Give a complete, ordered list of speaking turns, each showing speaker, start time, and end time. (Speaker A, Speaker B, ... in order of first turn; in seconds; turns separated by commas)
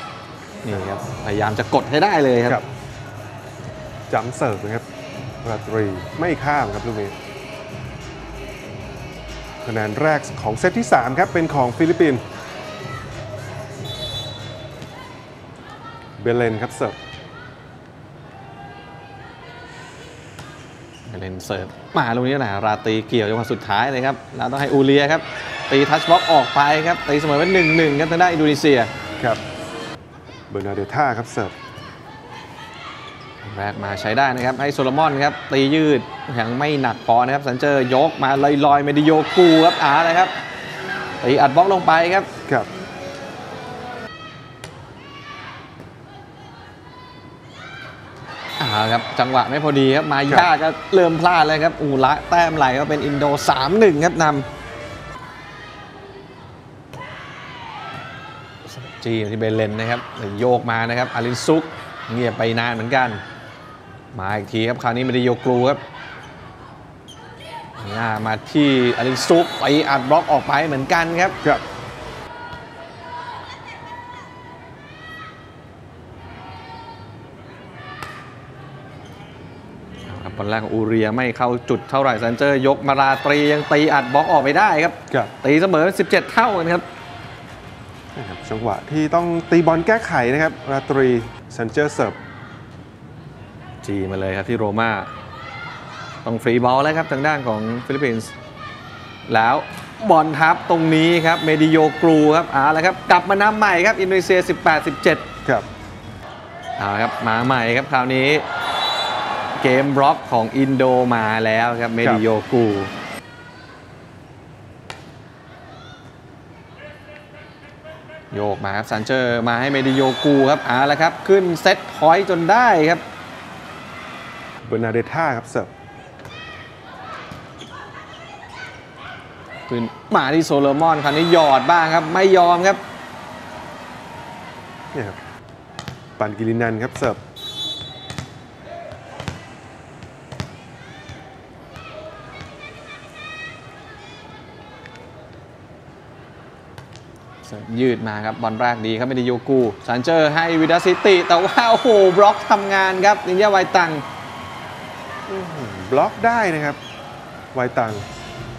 Speaker A: 0.6-2.6, Speaker B: 4.1-4.8, Speaker B: 5.4-7.1, Speaker B: 9.6-12.2, Speaker B: 16.2-17.0, Speaker A: 21.1-28.9, Speaker B: 30.5-31.5, Speaker A: 33.4-40.3, Speaker A: 41.2-42.3, Speaker A: 48.6-54.5, Speaker A: 58.7-63.2, Speaker A: 64.1-65.8, Speaker A: 67.8-71.4, Speaker A: 80.1-86.8, Speaker B: 88.1-92.2, Speaker A: 93.8-95.1, Speaker A: 96.2-98.3, Speaker A: 99.3-105.2, Speaker A: 106.8-108.4, Speaker A: 109.6-112.9, Speaker A: 118.3-123.0, Speaker B: 124.6-125.7, Speaker A: 129.7-132.8, Speaker B: 134.9-135.2, Speaker B: 136.2-137.2, Speaker A: 147.4-154.0, Speaker B: 155.3-156.8, Speaker B: 157.5-158.0